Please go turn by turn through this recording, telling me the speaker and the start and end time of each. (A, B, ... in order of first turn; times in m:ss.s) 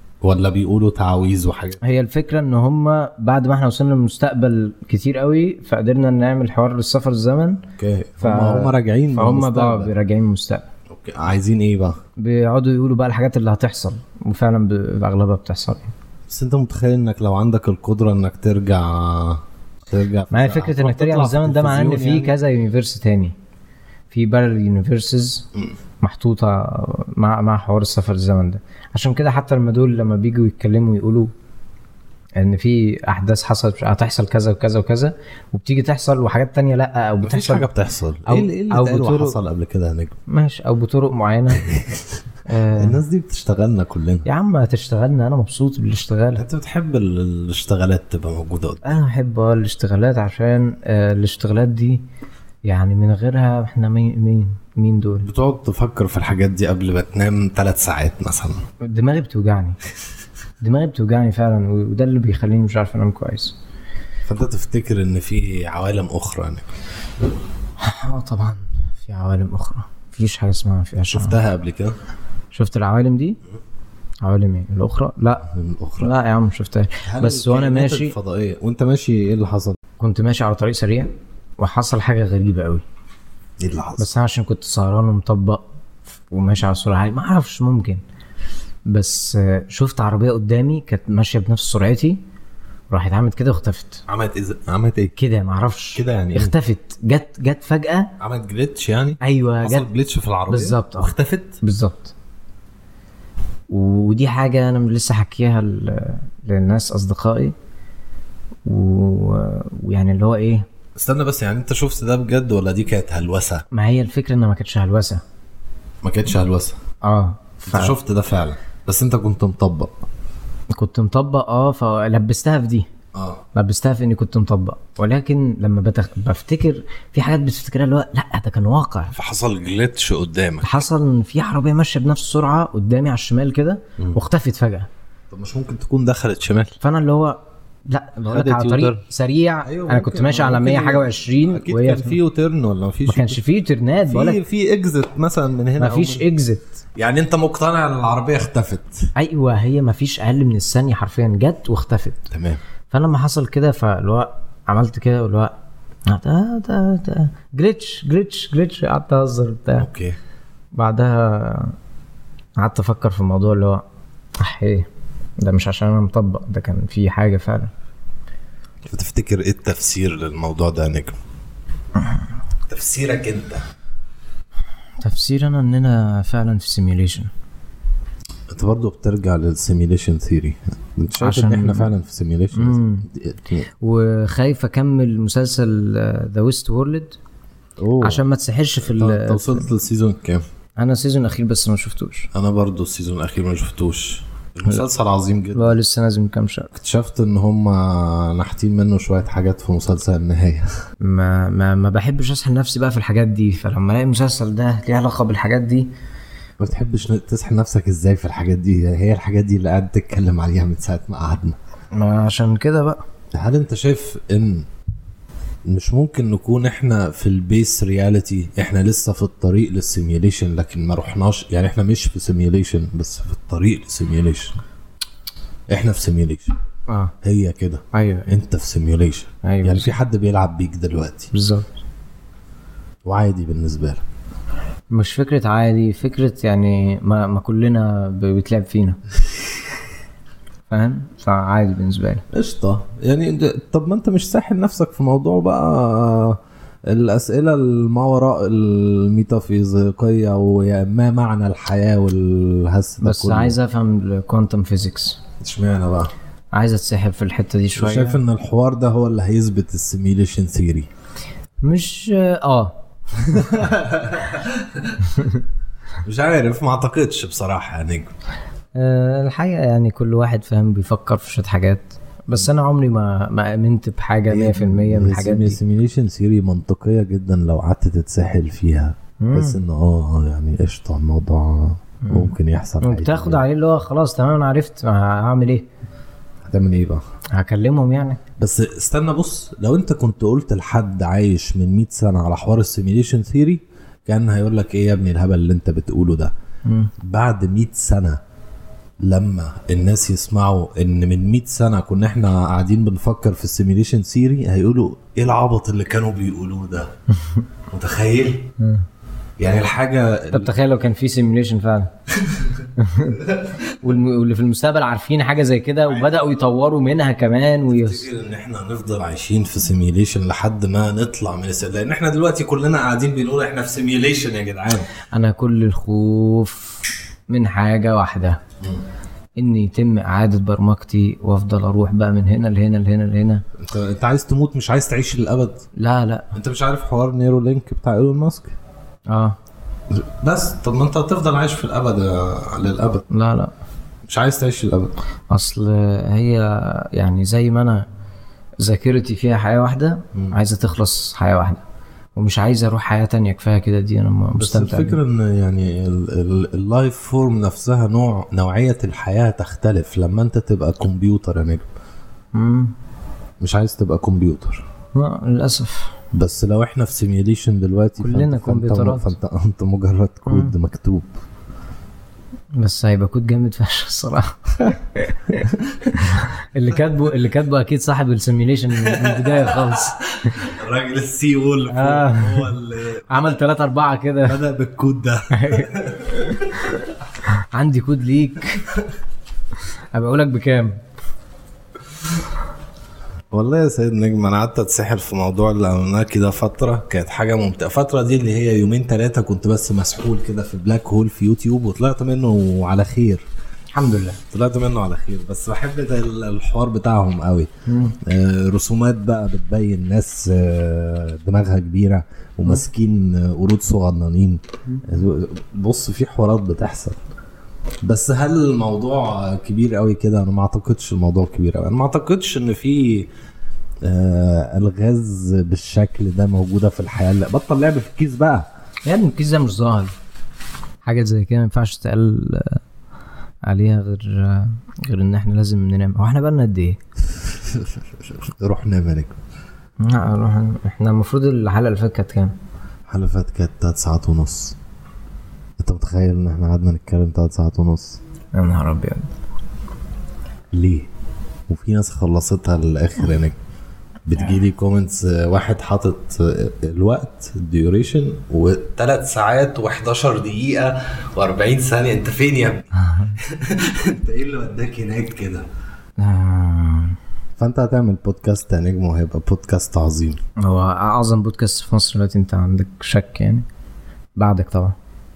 0:00.2-0:01.8 A
0:01.8-0:07.6 B
0:07.8-0:09.9 A
0:08.2-0:10.7 B
0:10.9-0:12.0 A
0:12.2-0:15.9 B
0:16.3-0:22.3 A
0:20.3-0:23.3 B
0:24.1-0:25.5 B
0:26.0-0:31.3 B
0:32.4-0:37.7 B
0:37.2-0:40.2 A
0:38.2-0:39.4 B
0:40.3-0:41.6 B
0:41.5-0:42.2 A
0:42.5-0:43.0 B
0:42.7-0:44.3 A
0:44.2-0:46.4 B
0:46.4-0:48.9 A
0:48.8-0:52.0 B
0:52.6-0:55.3 B
0:55.2-0:58.6 A
0:58.8-0:59.8 B
1:00.6-1:03.6 B
1:04.2-1:06.7 A
1:07.8-1:11.4 B
1:11.0-1:12.0 A
1:12.5-1:13.4 B
1:14.2-1:15.5 B
1:15.5-1:16.1 A
1:16.0-1:18.1 B
1:17.0-1:19.8 A
1:20.0-1:22.8 B
1:23.6-1:24.1 A
1:24.0-1:25.6 B
1:26.2-1:28.0 B
1:28.9-1:32.2 B
1:32.9-1:34.0 B
1:34.1-1:35.1 A
1:35.2-1:38.1 B
1:35.9-1:36.5 A
1:38.2-1:41.6 A
1:39.2-1:39.9 B
1:40.5-1:42.1 B
1:43.7-1:47.5 B
1:48.6-1:50.7 B
1:51.0-1:53.6 A
1:53.7-1:55.2 B
1:56.0-1:56.8 A
1:57.0-1:57.9 B
1:57.6-1:59.9 A
2:00.7-2:02.9 B
2:03.1-2:03.4 A
2:03.5-2:09.1 B
2:09.1-2:10.8 A
2:10.6-2:14.9 B
2:15.3-2:16.8 A
2:16.8-2:22.2 B
2:18.2-2:19.0 A
2:19.6-2:23.4 A
2:23.1-2:24.4 B
2:24.0-2:26.2 A
2:25.8-2:26.6 B
2:27.0-2:29.1 A
2:29.2-2:32.3 B
2:32.3-2:32.6 A
2:32.9-2:39.9 B
2:39.8-2:40.2 A
2:40.7-2:41.8 B
2:42.6-2:43.8 B
2:44.4-2:47.7 B
2:48.9-2:51.1 A
2:52.7-2:53.6 A
2:55.0-2:57.3 B
2:58.5-3:03.7 A
3:01.2-3:01.9 B
3:02.5-3:03.1 B
3:03.8-3:07.2 B
3:07.8-3:08.2 A
3:08.0-3:09.7 B
3:08.8-3:10.4 A
3:10.8-3:12.3 B
3:12.3-3:15.8 A
3:15.5-3:16.7 B
3:16.7-3:20.7 A
3:21.0-3:25.9 B
3:26.6-3:31.6 A
3:31.9-3:33.0 B
3:33.3-3:34.7 A
3:35.6-3:44.6 A
3:45.7-3:46.5 A
3:46.9-3:47.1 B
3:47.2-3:51.3 A
3:47.9-3:48.3 B
3:49.4-3:49.9 B
3:51.3-3:51.7 B
3:53.0-3:54.0 A
3:54.9-3:59.0 B
4:00.7-4:02.2 B
4:02.3-4:13.6 A
4:13.0-4:15.2 B
4:15.4-4:16.1 A
4:16.5-4:18.2 B
4:17.7-4:20.9 A
4:21.6-4:23.5 B
4:23.1-4:25.3 A
4:25.1-4:25.4 B
4:26.0-4:28.1 A
4:28.7-4:35.6 B
4:34.3-4:43.4 A
4:39.2-4:39.6 B
4:42.0-4:45.7 B
4:46.4-4:47.0 A
4:47.3-4:48.2 B
4:48.4-4:56.3 A
4:56.6-4:56.9 B
4:57.0-4:58.2 A
4:59.0-5:06.9 A
5:07.7-5:08.5 A
5:08.6-5:08.8 B
5:09.4-5:10.5 A
5:10.3-5:11.9 B
5:12.2-5:12.7 A
5:12.8-5:13.2 B
5:13.2-5:13.7 A
5:13.8-5:18.0 B
5:16.0-5:16.4 A
5:17.7-5:24.9 A
5:25.1-5:28.4 B
5:29.4-5:33.4 B
5:33.6-5:35.7 A
5:35.7-5:36.3 B
5:36.3-5:38.5 A
5:39.1-5:39.4 B
5:39.9-5:43.1 A
5:43.1-5:43.5 B
5:44.1-5:44.9 A
5:45.3-5:47.9 B
5:48.6-5:51.6 B
5:52.2-5:55.0 B
5:54.4-6:01.6 A
6:02.3-6:02.7 B
6:03.4-6:04.6 A
6:04.9-6:05.9 B
6:06.1-6:11.1 A
6:08.0-6:09.2 B
6:10.3-6:10.5 B
6:12.6-6:20.0 B
6:15.4-6:16.2 A
6:18.7-6:23.4 A
6:21.7-6:22.5 B
6:23.1-6:24.4 B
6:24.2-6:26.7 A
6:25.3-6:25.7 B
6:27.2-6:28.6 B
6:29.9-6:30.8 B
6:33.3-6:43.2 A
6:43.7-6:44.2 B
6:44.3-6:57.0 A
6:47.6-6:48.0 B
6:57.8-7:03.1 A
7:03.8-7:08.5 A
7:08.8-7:09.9 B
7:10.8-7:12.6 B
7:13.4-7:16.8 B
7:17.0-7:19.2 A
7:19.8-7:22.3 B
7:22.9-7:24.6 A
7:25.6-7:28.0 A
7:28.3-7:29.1 B
7:30.5-7:30.9 A
7:31.5-7:33.4 A
7:34.0-7:45.4 A
7:42.7-7:43.2 B
7:46.0-7:47.0 B
7:47.4-7:50.2 A
7:50.4-7:53.4 B
7:54.2-7:54.7 B